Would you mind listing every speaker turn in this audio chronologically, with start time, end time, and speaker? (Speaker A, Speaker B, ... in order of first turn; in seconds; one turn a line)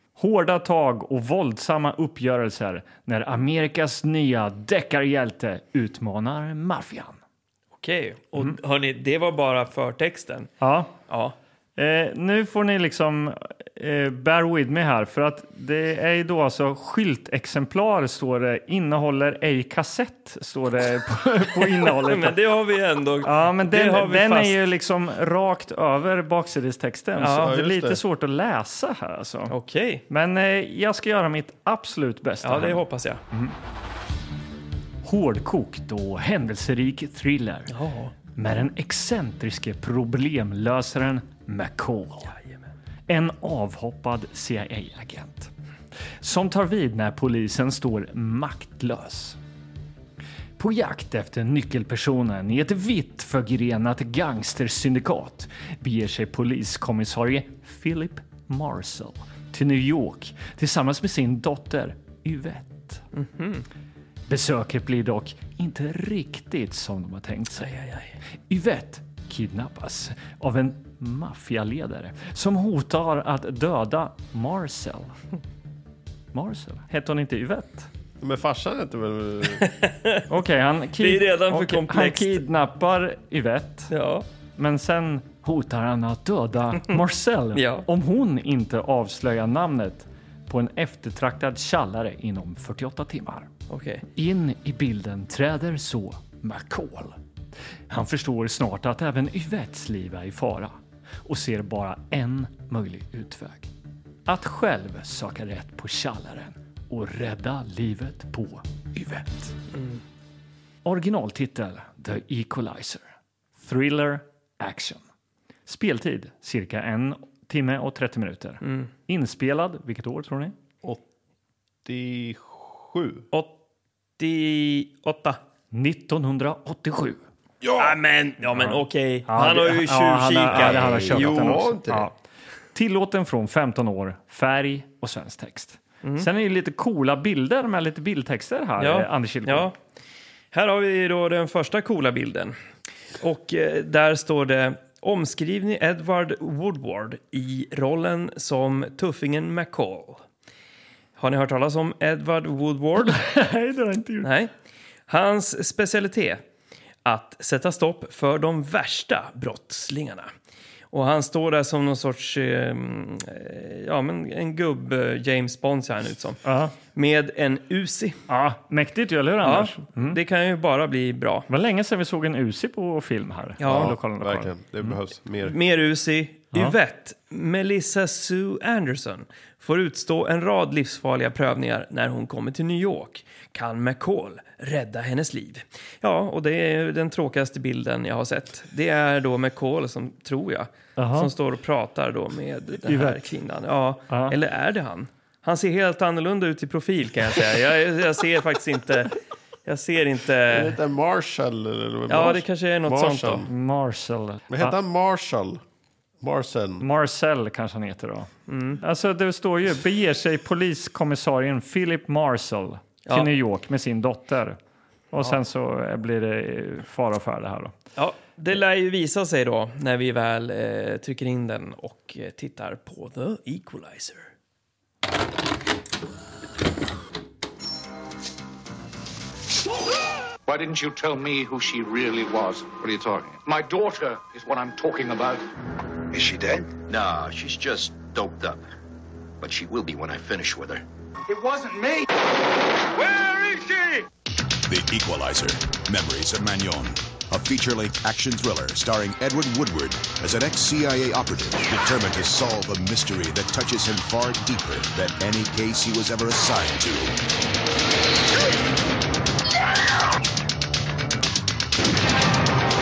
Speaker A: 0.1-7.2
Speaker B: 7.7-10.5
Speaker A: 10.6-10.9
Speaker B: 11.1-11.3
Speaker A: 11.8-22.4
Speaker B: 21.6-24.6
Speaker A: 23.2-29.5
Speaker B: 27.2-27.5
Speaker C: 27.4-28.0
Speaker B: 29.5-30.0
Speaker A: 30.1-33.5
Speaker B: 32.4-33.2
Speaker A: 35.0-37.7
Speaker B: 37.7-38.1
Speaker A: 38.4-42.3
Speaker B: 42.3-42.5
Speaker A: 43.1-45.5
Speaker A: 46.2-49.4
Speaker A: 50.6-63.0
Speaker B: 63.1-63.6
Speaker A: 64.3-67.7
Speaker B: 67.6-68.2
Speaker A: 68.5-75.1
Speaker A: 76.3-77.9
Speaker C: 78.2-79.7
Speaker B: 79.5-80.2
Speaker A: 80.3-83.9
Speaker B: 81.0-82.4
Speaker B: 83.9-84.2
Speaker A: 84.5-93.5
Speaker B: 87.5-87.8
Speaker B: 93.7-94.0
Speaker A: 94.1-97.2
Speaker A: 97.9-103.7
Speaker A: 104.2-109.5
Speaker B: 109.7-110.0
Speaker A: 110.8-113.0
Speaker A: 113.6-115.0
Speaker A: 115.7-120.5
Speaker B: 118.6-118.9
Speaker C: 121.8-123.2
Speaker B: 124.2-125.4
Speaker A: 125.7-127.2
Speaker C: 127.6-128.0
Speaker B: 127.8-131.7
Speaker A: 128.5-132.1
Speaker C: 130.5-132.1
Speaker A: 132.7-139.7
Speaker B: 136.0-136.3
Speaker B: 138.8-139.8
Speaker B: 140.5-142.6
Speaker B: 143.2-150.2
Speaker B: 151.2-153.2
Speaker A: 153.1-154.3
Speaker B: 154.2-154.5
Speaker B: 155.1-156.4
Speaker B: 157.0-160.3
Speaker B: 160.9-168.2
Speaker A: 166.4-166.7
Speaker A: 168.3-170.2
Speaker B: 169.4-171.5
Speaker A: 171.5-174.5
Speaker B: 173.6-173.9
Speaker C: 173.6-175.6
Speaker B: 175.4-200.8
Speaker A: 191.0-191.3
Speaker A: 192.8-193.2
Speaker A: 194.1-194.3
Speaker C: 200.5-203.5
Speaker B: 202.1-203.5
Speaker A: 203.5-204.8
Speaker C: 204.5-205.6
Speaker C: 206.2-206.8
Speaker A: 206.8-214.6
Speaker B: 208.5-208.8
Speaker A: 215.1-217.7
Speaker B: 217.9-224.3
Speaker D: 230.5-235.4
Speaker E: 236.1-238.7
Speaker E: 239.4-240.8
Speaker D: 241.3-242.1
Speaker D: 242.8-244.1
Speaker F: 244.7-257.1